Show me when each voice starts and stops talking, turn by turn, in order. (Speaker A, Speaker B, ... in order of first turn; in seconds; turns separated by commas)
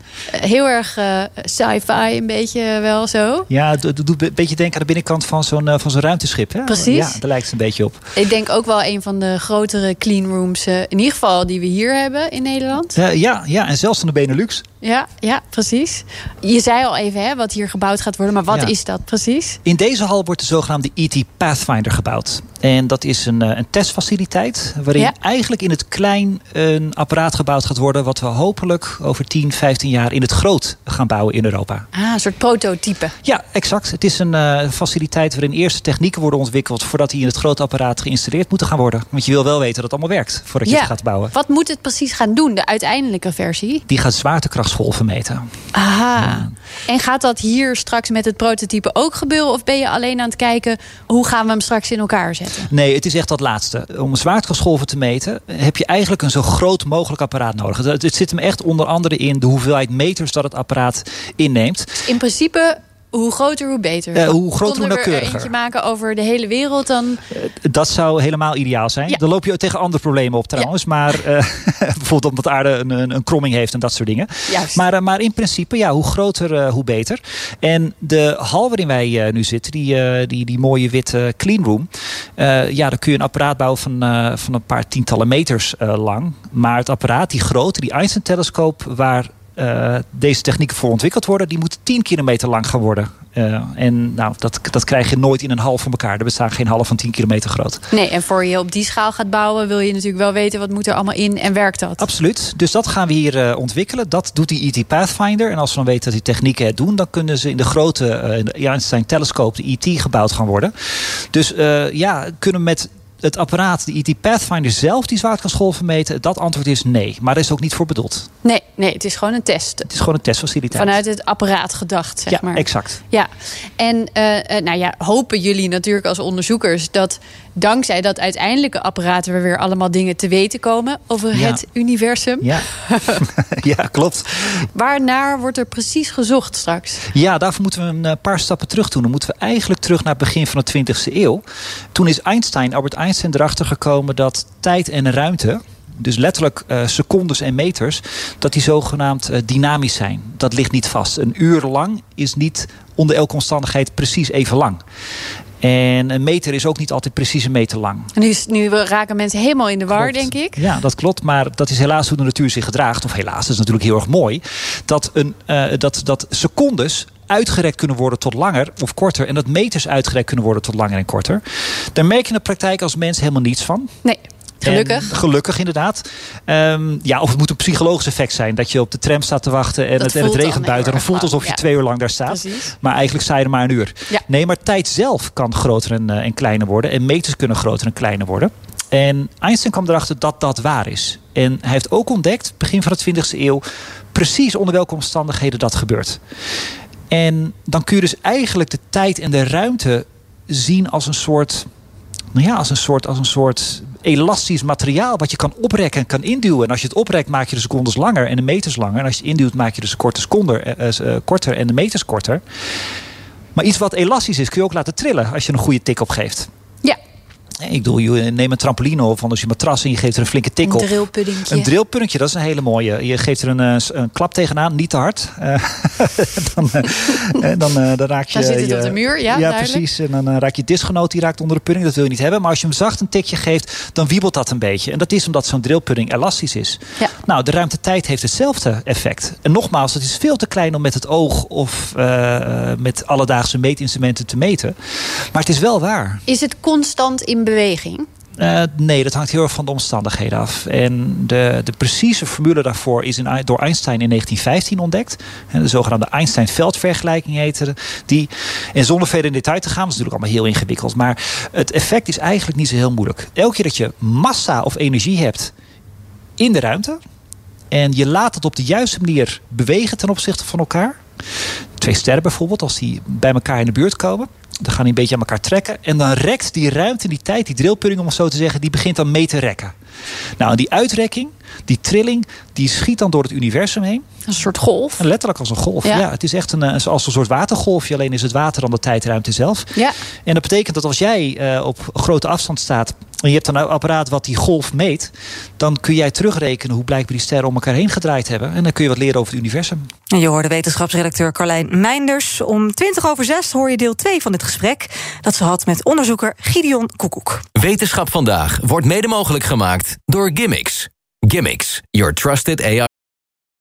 Speaker A: 0.3-3.5, Speaker B: 3.5-8.0, Speaker A: 6.7-7.2, Speaker A: 8.2-13.0, Speaker B: 12.9-14.6, Speaker A: 14.8-19.6, Speaker B: 19.6-31.9, Speaker A: 31.9-33.1, Speaker B: 33.2-41.3, Speaker A: 40.7-43.8, Speaker B: 43.9-45.4, Speaker A: 45.7-52.7, Speaker B: 46.2-46.5, Speaker B: 52.7-62.1, Speaker A: 62.0-67.2, Speaker B: 64.2-65.5, Speaker B: 67.3-97.8, Speaker A: 74.5-74.8, Speaker A: 97.9-102.1, Speaker B: 102.0-118.3, Speaker A: 118.4-119.9, Speaker B: 119.9-121.0, Speaker A: 120.7-133.2, Speaker B: 122.3-123.0, Speaker B: 131.3-131.6, Speaker B: 132.4-134.6, Speaker A: 134.6-137.1, Speaker B: 137.1-141.4, Speaker B: 141.9-154.8, Speaker B: 155.6-158.1, Speaker A: 158.2-160.6, Speaker B: 159.9-171.4, Speaker B: 171.9-173.9, Speaker A: 174.0-175.1, Speaker B: 174.6-193.6, Speaker A: 180.0-181.6, Speaker A: 182.3-182.7, Speaker B: 194.1-196.2, Speaker B: 197.1-201.7, Speaker B: 202.3-212.4, Speaker B: 213.6-216.5, Speaker B: 217.6-246.2, Speaker A: 220.6-221.7, Speaker A: 228.3-229.8, Speaker A: 246.3-248.1, Speaker B: 248.4-265.5, Speaker B: 266.4-267.0, Speaker B: 267.7-271.0, Speaker B: 271.8-279.7, Speaker B: 280.4-284.0, Speaker A: 284.3-285.0, Speaker B: 285.0-289.7, Speaker B: 290.3-299.9, Speaker C: 300.1-307.4, Speaker D: 307.6-312.9